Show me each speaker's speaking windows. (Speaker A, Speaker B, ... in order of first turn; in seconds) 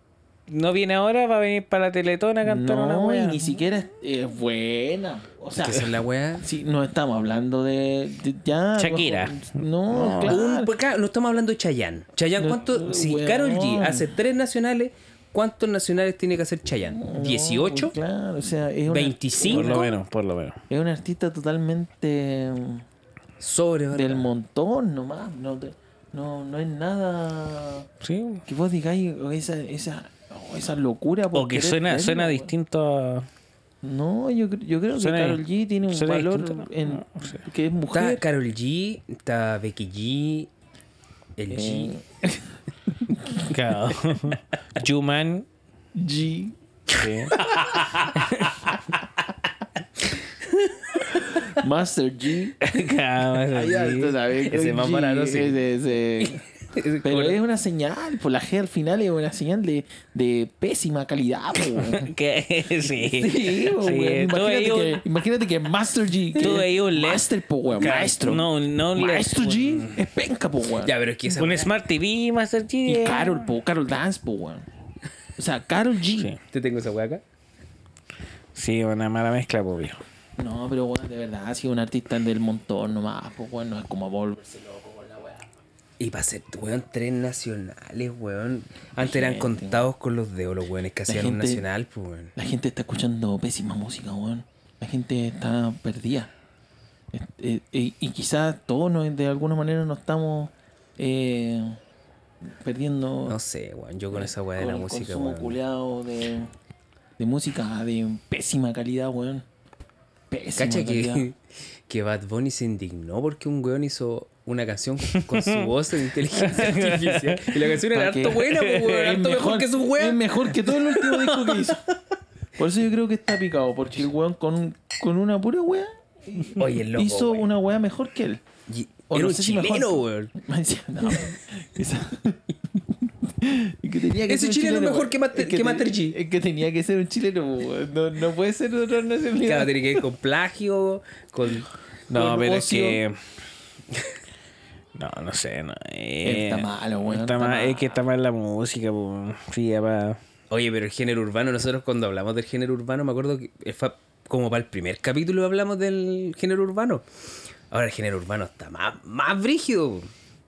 Speaker A: 0.5-3.5, 8.8-10.4, 19.4-20.6, 28.0-28.4, 31.3-33.3, 35.0-37.4, 43.4-45.5, 47.0-47.4, 48.2-48.6, 52.6-54.2, 61.9-65.0, 66.4-70.0, 71.3-73.5, 78.5-80.0, 115.1-115.7, 116.3-117.7, 118.5-119.2, 142.1-143.2, 144.9-150.2
Speaker B: 2.4-5.9, 6.4-10.7, 12.4-14.1, 16.9-19.9, 20.7-22.9, 23.9-27.9, 28.5-32.5, 33.8-38.2, 41.5-43.5, 46.0-46.5, 47.3-47.9, 51.1-52.6, 53.5-56.4, 57.0-62.1, 62.9-70.9, 72.9-74.7, 75.4-76.3, 80.4-85.5, 89.0-89.9, 91.1-91.6, 92.4-96.3, 97.1-101.8, 102.4-103.4, 104.1-106.5, 107.2-109.5, 110.3-111.2, 117.9-121.8, 122.6-128.4, 129.1-140.0, 142.1-143.0, 146.2-148.0
Speaker C: 5.6-6.5, 10.2-18.0, 18.9-19.9, 23.4-24.3, 37.9-40.5, 41.4-42.0, 47.4-48.5, 54.5-55.6, 56.2-57.4, 70.8-71.7, 76.5-77.2, 86.0-92.3, 103.3-105.6, 110.6-120.3, 126.6-127.5, 128.7-130.3, 134.3-136.2, 139.4-141.7, 150.5-157.1, 157.7-160.1